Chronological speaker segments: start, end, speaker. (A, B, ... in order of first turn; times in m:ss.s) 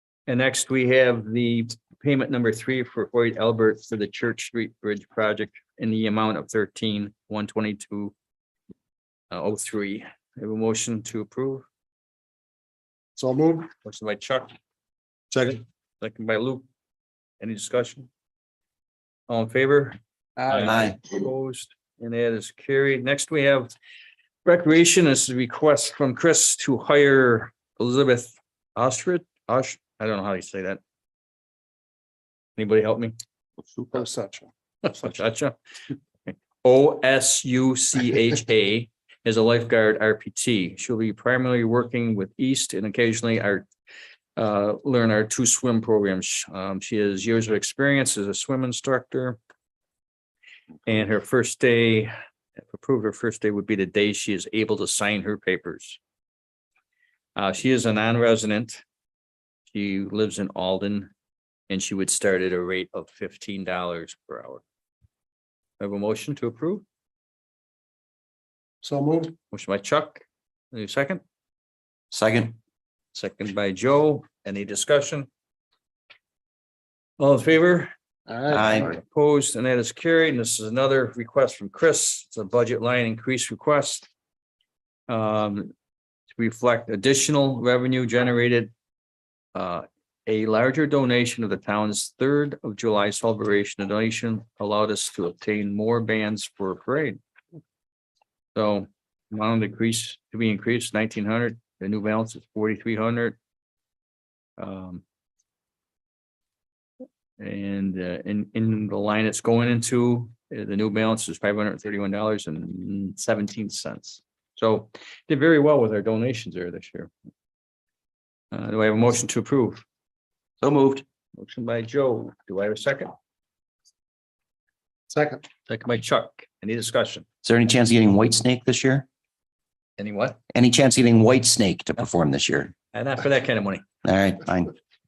0:00.3-0:08.1 A
0:09.3-0:11.6 A
0:13.2-0:13.7 B
0:13.8-0:14.5 A
0:15.3-0:15.6 B
0:16.0-0:16.6 A
0:17.4-0:18.1 A
0:19.3-0:20.0 A
0:20.4-0:21.0 B
0:20.5-0:23.7 A
0:20.7-0:21.0 C
0:24.4-0:30.8 A
0:32.6-0:33.1 A
0:33.9-0:34.5 B
0:34.8-0:35.6 A
0:36.3-0:43.7 A
0:44.4-0:49.4 A
0:50.9-0:52.1 A
0:52.7-0:56.0 A
0:57.4-0:58.8 A
0:59.7-1:01.1 A
1:01.7-1:04.6 A
1:05.8-1:06.8 A
1:08.8-1:09.4 B
1:09.5-1:11.2 A
1:12.1-1:12.6 C
1:13.1-1:15.3 A
1:17.2-1:17.9 A
1:18.3-1:19.0 B
1:18.5-1:18.9 C
1:18.7-1:24.1 A
1:25.1-1:25.7 A
1:26.3-1:28.7 A
1:29.5-1:37.2 A
1:38.6-1:43.4 A
1:44.6-1:45.0 A
1:47.4-1:57.1 A
1:58.5-1:59.8 A
2:00.6-2:01.0 C
2:01.4-2:03.1 A
2:05.1-2:05.4 B
2:05.7-2:07.2 A
2:07.4-2:09.1 C
2:10.0-2:10.4 A
2:10.5-2:12.7 C
2:12.9-2:13.8 A
2:14.0-2:14.7 C